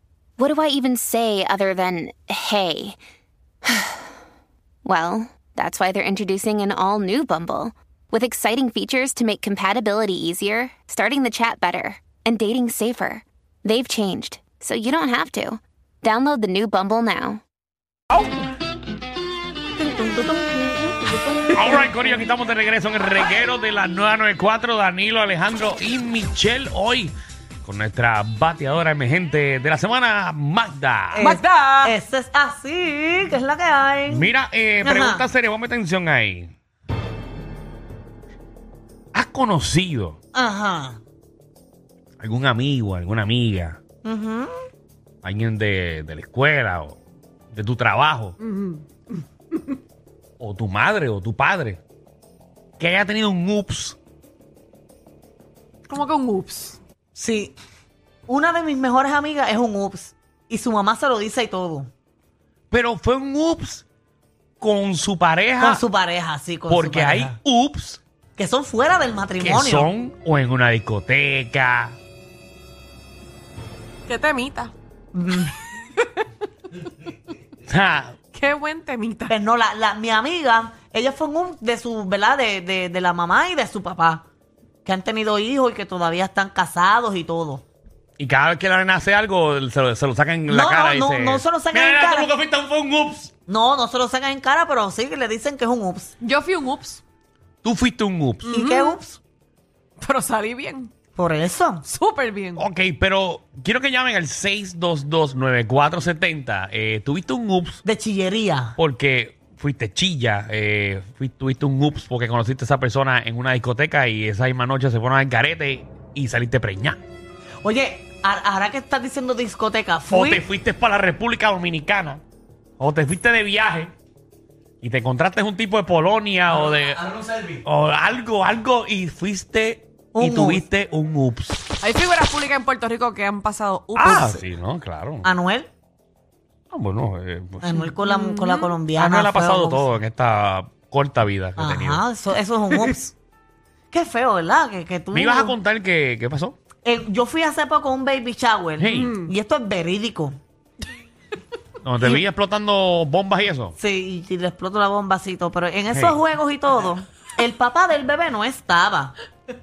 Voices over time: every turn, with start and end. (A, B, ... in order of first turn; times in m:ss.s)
0:00.4-0:03.0 A
0:03.6-0:04.1 A
0:04.8-0:17.4 A
0:18.1-0:18.4 B
0:19.8-0:22.2 B
0:21.5-0:31.3 C
0:31.1-0:34.3 B
0:31.2-0:32.0 D
0:34.1-0:36.5 C
0:34.8-0:35.2 B
0:39.1-0:40.2 C
0:40.3-0:41.0 B
0:42.2-0:43.8 C
0:44.0-0:44.5 B
0:45.2-0:47.0 C
0:47.5-0:48.4 C
0:48.4-0:49.8 D
0:50.4-0:51.8 C
0:52.8-0:54.0 C
0:55.9-0:56.8 D
0:57.2-0:57.5 B
0:58.3-1:01.9 B
1:02.7-1:03.8 C
1:04.6-1:05.8 C
1:05.6-1:07.4 B
1:06.7-1:08.0 C
1:08.4-1:09.9 B
1:09.4-1:12.0 C
1:14.1-1:14.7 D
1:15.1-1:15.5 B
1:16.0-1:16.2 D
1:17.7-1:18.1 C
1:18.3-1:19.3 D
1:19.3-1:24.2 B
1:24.8-1:27.6 B
1:28.2-1:33.3 C
1:30.5-1:32.3 B
1:33.5-1:36.1 B
1:36.2-1:37.0 D
1:37.6-1:38.5 C
1:38.4-1:39.0 D
1:38.5-1:39.2 B
1:40.0-1:40.9 D
1:41.2-1:41.8 B
1:41.8-1:42.6 D
1:42.6-1:47.8 C
1:47.8-1:48.8 B
1:48.8-1:57.0 C
1:57.6-2:00.4 B
2:00.1-2:02.2 C
2:02.8-2:03.9 C
2:04.8-2:11.7 C
2:10.1-2:10.6 B
2:11.8-2:14.4 D
2:13.9-2:15.3 C
2:15.2-2:15.7 B
2:16.7-2:17.8 C
2:17.6-2:19.9 B
2:18.0-2:18.7 D
2:19.0-2:22.0 C
2:21.6-2:23.1 B
2:23.9-2:25.6 B
2:25.1-2:26.6 C
2:26.8-2:30.4 B
2:28.8-2:29.1 C
2:28.9-2:29.3 D
2:31.8-2:33.7 C
2:33.8-2:39.1 B
2:35.9-2:36.2 C